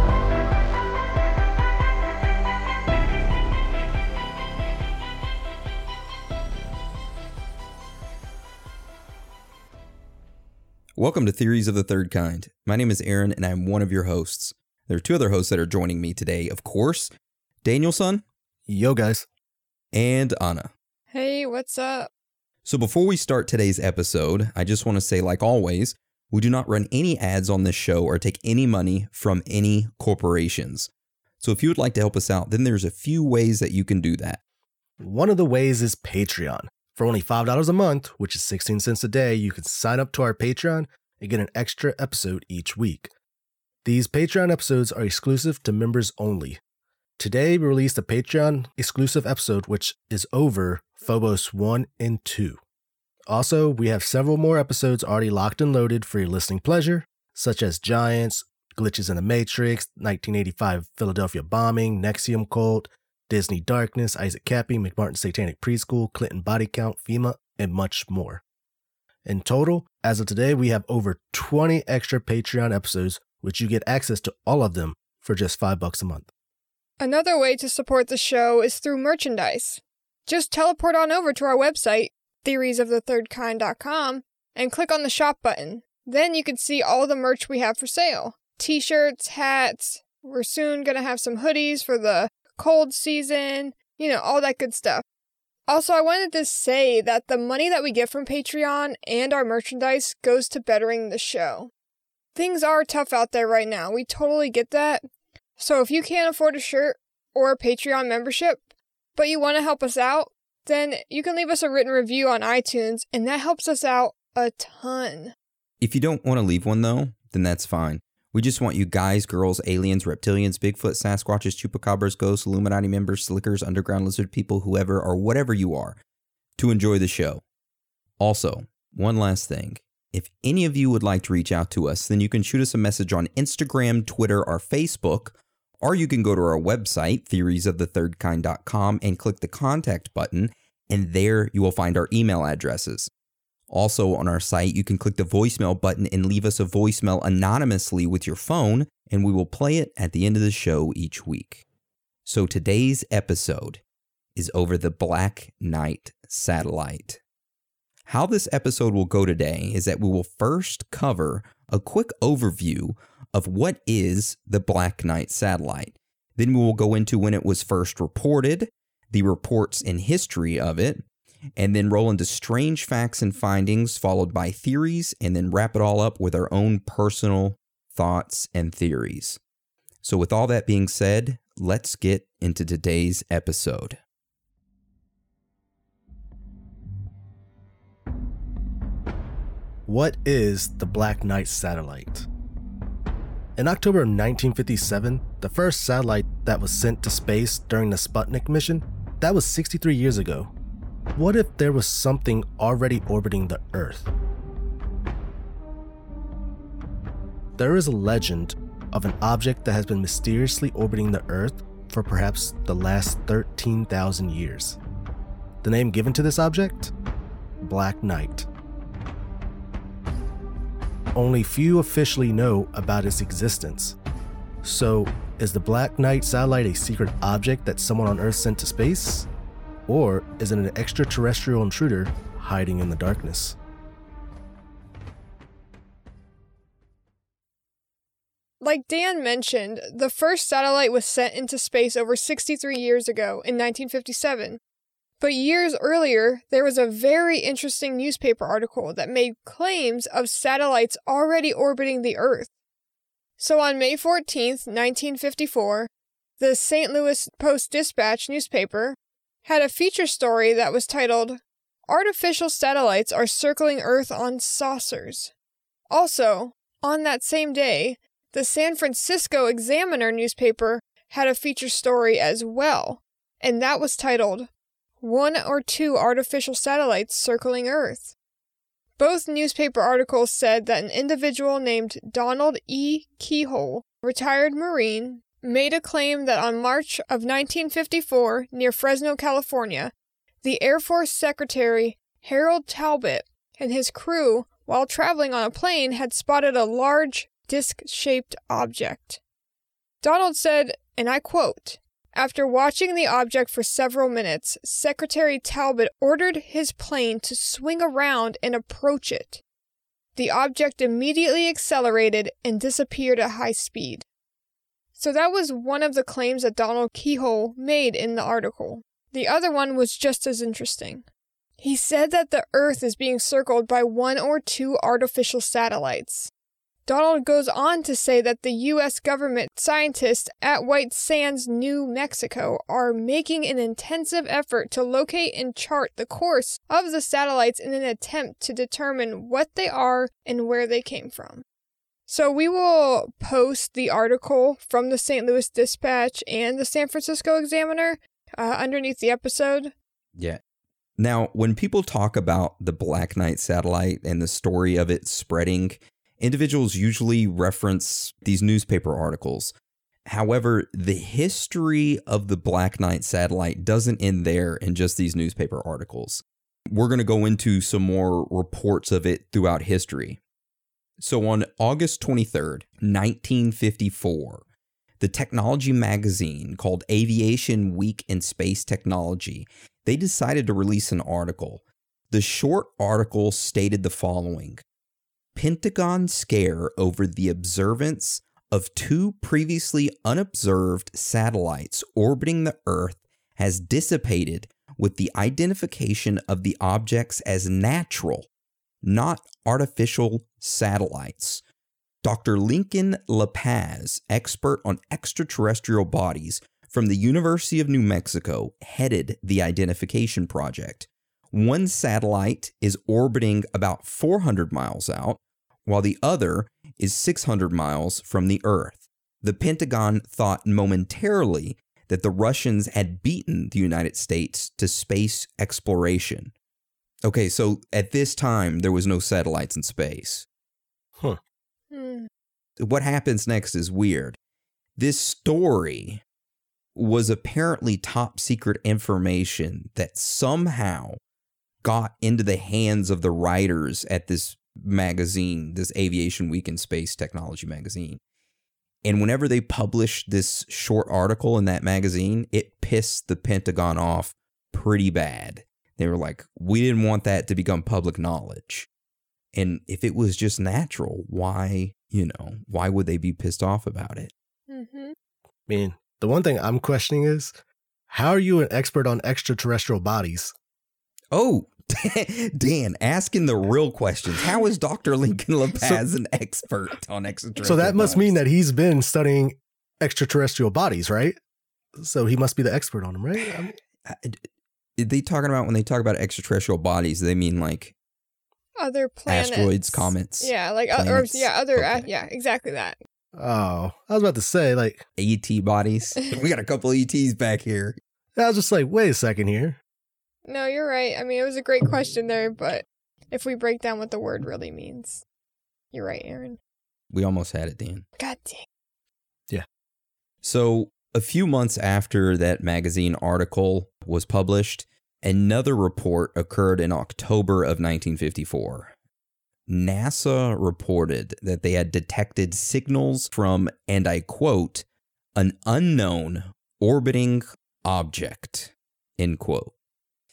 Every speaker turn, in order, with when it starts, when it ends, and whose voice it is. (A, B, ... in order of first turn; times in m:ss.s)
0:11.0-0:17.1 A
0:17.6-0:18.2 A
0:18.7-0:19.3 B
0:19.9-0:20.7 A
0:21.1-0:22.1 C
0:22.6-0:34.4 A
0:35.0-0:43.1 B
0:43.8-0:46.6 B
0:47.2-0:52.6 B
0:53.3-1:08.4 B
1:09.3-1:16.3 B
1:17.0-1:35.0 C
1:35.7-1:41.7 C
1:42.4-1:45.0 C
1:45.6-1:48.6 C
1:49.2-1:55.4 C
1:55.8-2:06.0 A
2:06.6-2:07.4 A
2:08.2-2:23.1 A
2:23.7-2:31.6 A
2:32.3-2:33.8 A
2:34.4-2:37.2 A
2:38.1-2:51.0 A
2:51.6-2:59.4 A
3:00.0-3:04.0 A
3:09.9-3:12.3 B
3:13.6-3:20.5 B
3:21.2-3:24.1 B
3:27.6-3:34.8 B
3:35.6-3:36.9 B
3:37.6-3:38.5 B
3:41.1-3:44.0 B
3:44.6-3:49.3 B
3:49.9-3:53.6 B
3:58.6-4:04.6 C
4:05.2-4:12.5 C
4:13.4-4:25.3 C
4:25.9-4:34.5 C
4:35.0-4:38.1 C
4:39.0-4:59.2 C
5:00.0-5:09.4 C
5:10.2-5:14.0 C
5:15.0-5:21.1 C
5:21.6-5:26.3 C
5:26.9-5:41.4 C
5:42.1-5:49.7 C
5:50.2-5:50.4 A
5:51.0-5:59.6 A
6:00.1-6:10.2 A
6:11.0-6:14.4 A
6:15.0-6:24.6 A
6:25.4-6:38.3 A
6:38.8-6:41.4 A
6:42.0-7:06.3 A
7:07.0-7:10.3 A
7:11.7-7:12.1 C
7:12.6-7:14.2 A
7:14.8-7:16.0 A
7:16.8-7:21.0 A
7:21.6-7:28.0 A
7:28.9-7:38.7 A
7:39.3-7:44.1 A
7:44.5-7:45.0 C
7:45.5-7:47.4 B
7:47.9-7:50.3 B
7:51.1-7:58.2 A
7:57.4-8:01.2 B
8:01.8-8:03.6 B
8:03.9-8:04.2 A
8:04.8-8:07.8 A
8:08.6-8:12.8 C
8:09.1-8:11.9 A
8:13.2-8:14.8 B
8:15.0-8:17.8 A
8:18.2-8:19.6 B
8:20.3-8:25.0 C
8:25.7-8:26.4 C
8:26.9-8:27.9 A
8:28.0-8:28.5 C
8:30.2-8:38.7 A
8:39.5-8:44.6 A
8:45.2-8:49.5 A